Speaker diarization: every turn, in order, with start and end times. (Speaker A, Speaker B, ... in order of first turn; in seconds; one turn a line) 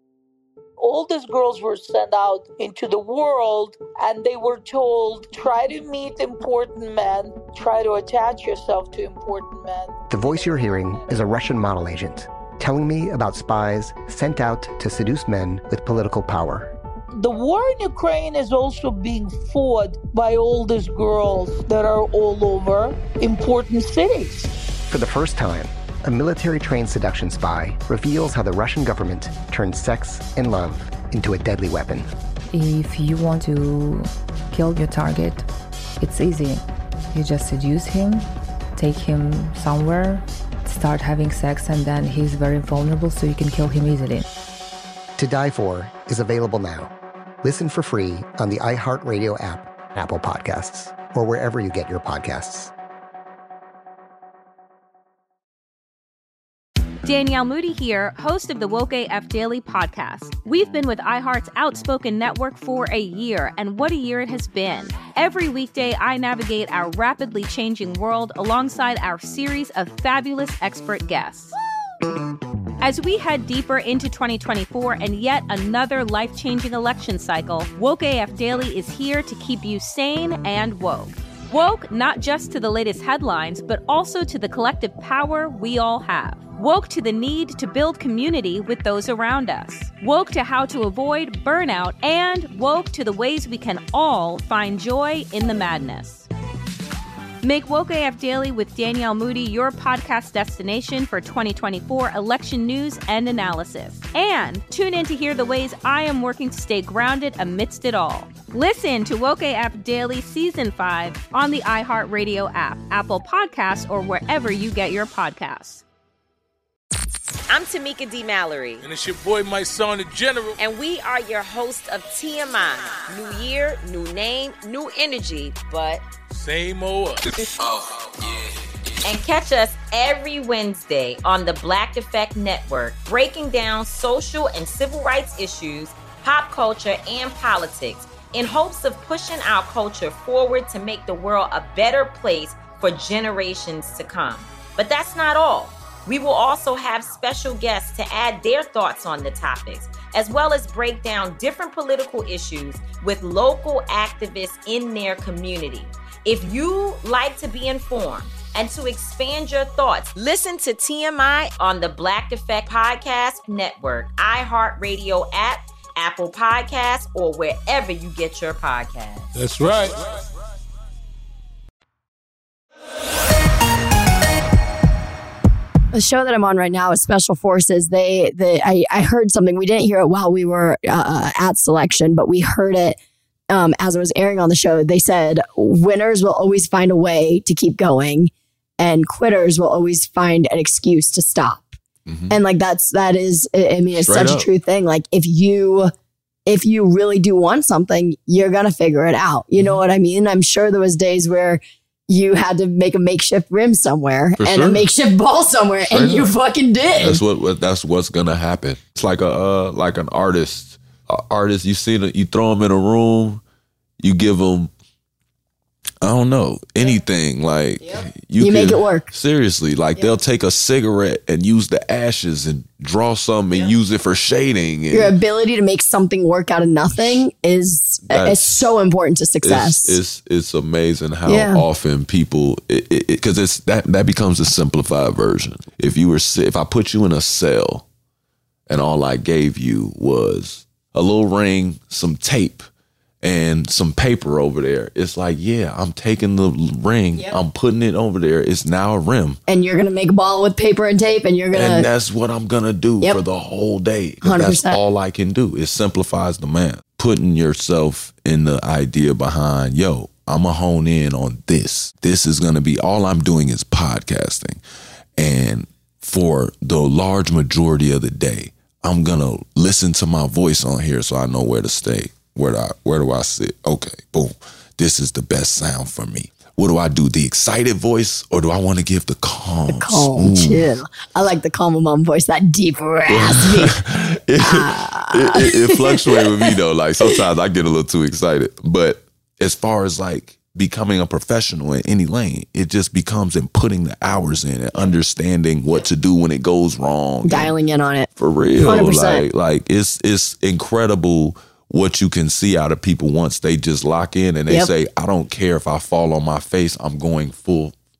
Speaker A: 0.8-9.9
Speaker B: 10.1-16.7
Speaker A: 17.2-24.5
Speaker B: 24.9-32.1
Speaker C: 32.5-35.5
Speaker C: 36.0-44.3
Speaker B: 45.2-52.7
Speaker D: 57.0-71.5
Speaker D: 72.8-96.3
Speaker D: 97.4-115.8
Speaker E: 117.5-118.8
Speaker F: 118.8-120.5
Speaker E: 120.6-126.0
Speaker F: 126.3-127.4
Speaker E: 129.0-169.3
Speaker F: 169.3-170.1
Speaker G: 175.9-183.0
Speaker G: 183.5-191.8
Speaker H: 192.1-192.3
Speaker G: 192.3-195.9
Speaker H: 194.0-194.5
Speaker G: 196.4-207.2
Speaker H: 204.4-204.8
Speaker H: 205.9-206.3
Speaker H: 206.9-213.4
Speaker H: 214.0-214.7
Speaker H: 216.0-225.1
Speaker G: 218.4-219.1
Speaker G: 224.9-230.0
Speaker H: 228.1-228.7
Speaker H: 229.4-237.8
Speaker G: 231.3-231.6
Speaker H: 238.7-242.7
Speaker H: 243.2-249.4
Speaker G: 249.5-251.8
Speaker H: 251.5-264.6
Speaker G: 254.2-254.8
Speaker H: 265.2-280.7
Speaker G: 279.7-283.8
Speaker H: 283.1-297.5
Speaker G: 284.4-286.5
Speaker G: 297.2-299.2
Speaker H: 298.1-307.7